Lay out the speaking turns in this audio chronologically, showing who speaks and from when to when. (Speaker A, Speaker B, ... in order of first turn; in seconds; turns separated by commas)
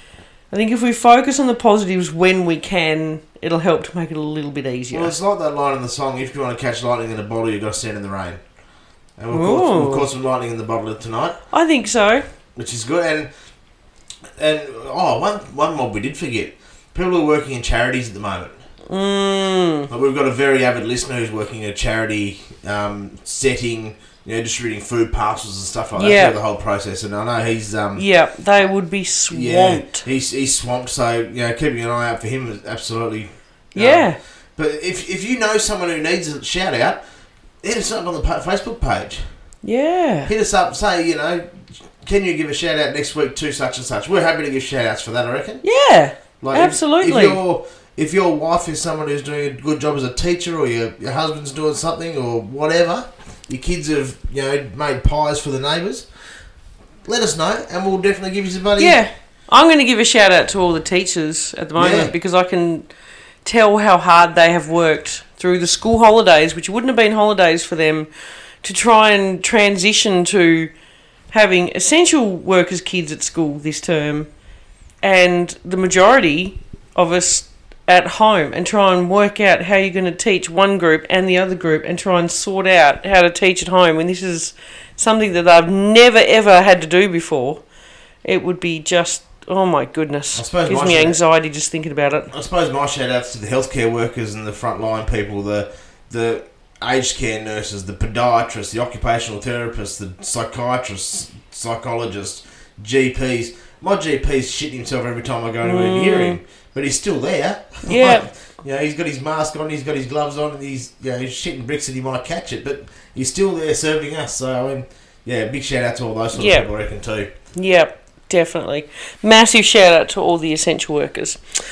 Speaker A: 0.5-5.1, Speaker B: 4.9-8.4, Speaker B: 9.2-11.4, Speaker A: 9.3-10.1, Speaker A: 11.5-12.2, Speaker B: 12.6-13.3, Speaker B: 14.4-18.6, Speaker A: 18.9-19.9, Speaker B: 19.9-28.0, Speaker A: 25.9-26.4, Speaker A: 27.9-30.0, Speaker B: 29.3-37.0, Speaker A: 33.7-34.2, Speaker B: 37.6-39.2, Speaker A: 39.6-40.3, Speaker B: 40.3-45.6, Speaker A: 45.6-47.4, Speaker B: 46.4-56.1, Speaker B: 57.0-59.0, Speaker A: 58.8-62.9, Speaker B: 61.8-62.1, Speaker A: 63.4-68.1, Speaker A: 68.6-70.7, Speaker A: 71.3-74.3, Speaker A: 75.0-87.6, Speaker A: 88.2-92.3, Speaker B: 90.3-91.2, Speaker B: 92.3-117.3, Speaker A: 105.6-106.4, Speaker A: 107.8-108.3, Speaker A: 116.3-116.7, Speaker A: 117.5-121.4